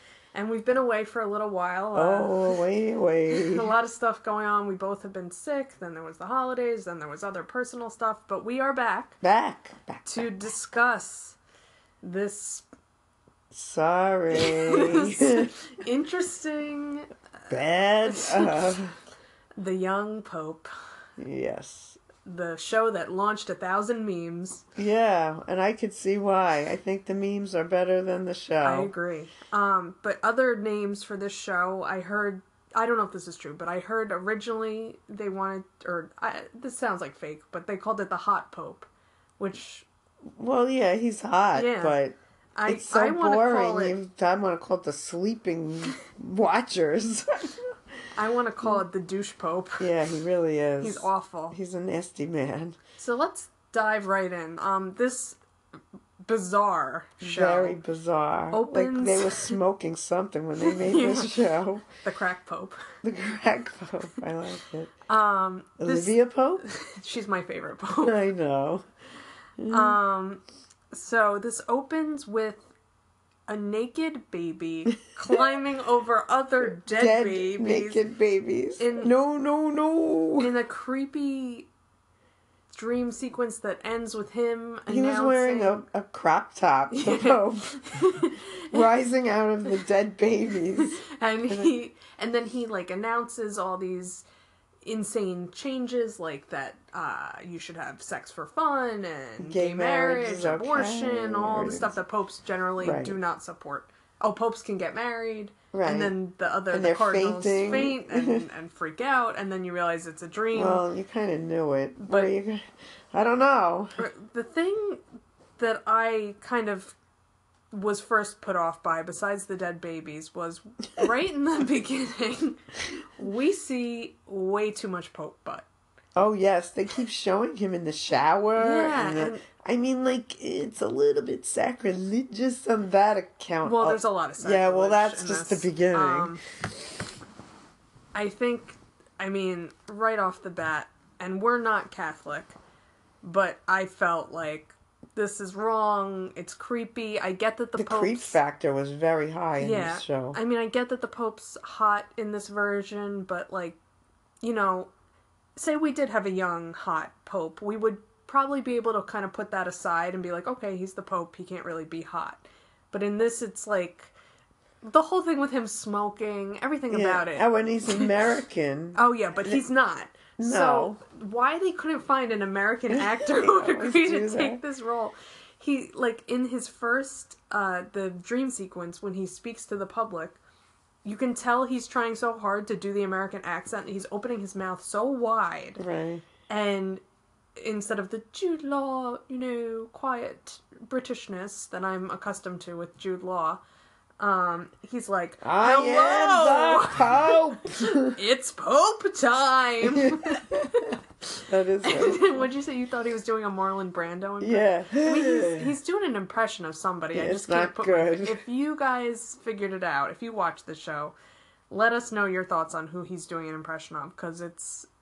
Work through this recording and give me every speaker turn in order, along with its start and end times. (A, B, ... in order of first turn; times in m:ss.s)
0:00.3-0:02.6 A
0:01.9-0:03.7 B
0:03.3-0:09.2 A
0:09.2-0:10.3 B
0:10.0-0:11.4 A
0:12.0-0:12.7 A
0:13.5-0:15.6 B
0:14.3-0:17.5 A
0:17.5-0:19.0 B
0:18.0-0:18.7 A
0:19.6-0:20.7 A
0:21.2-0:22.0 B
0:22.2-0:24.6 A
0:24.8-0:28.9 B
0:28.6-0:39.9 A
0:40.4-0:42.2 B
0:41.5-0:42.0 A
0:42.6-0:44.0 A
0:42.7-0:47.7 B
0:48.2-0:49.9 A
0:49.8-0:52.8 B
0:50.8-0:51.6 A
0:53.0-0:55.4 A
0:56.2-0:57.8 A
0:57.2-1:01.8 B
0:58.5-0:59.6 A
1:00.6-1:01.5 A
1:02.0-1:02.8 A
1:03.0-1:04.9 B
1:05.1-1:08.1 A
1:05.8-1:06.6 B
1:08.0-1:08.8 B
1:09.6-1:10.0 B
1:09.7-1:12.7 A
1:13.5-1:18.0 A
1:16.6-1:20.5 B
1:18.8-1:19.1 A
1:20.4-1:21.7 A
1:22.7-1:25.8 A
1:24.9-1:27.8 B
1:26.9-1:28.8 A
1:28.7-1:31.7 B
1:30.8-1:34.2 A
1:34.8-1:50.8 A
1:39.4-1:42.0 B
1:42.8-1:43.2 B
1:45.7-1:46.1 B
1:46.7-1:48.5 B
1:50.6-1:54.0 B
1:52.0-1:52.3 A
1:54.0-1:55.0 A
1:55.6-1:57.0 A
1:57.7-2:05.7 A
2:06.2-2:16.4 B
2:08.6-2:09.4 A
2:13.6-2:16.4 A
2:18.2-2:22.6 A
2:23.2-2:28.4 A
2:27.8-2:30.4 B
2:29.6-2:33.8 A
2:34.4-2:34.9 A
2:35.6-2:44.1 A
2:44.8-2:48.1 A
2:46.9-2:49.6 B
2:49.0-3:00.4 A
2:50.4-2:51.0 B
2:52.9-2:54.6 B
3:01.0-3:05.8 A
3:05.8-3:06.2 B
3:06.5-3:07.0 A
3:07.6-3:13.6 A
3:14.2-3:21.0 A
3:15.4-3:18.2 B
3:19.8-3:22.4 B
3:21.8-3:31.2 A
3:24.4-3:25.7 B
3:27.1-3:28.4 B
3:31.7-3:34.9 A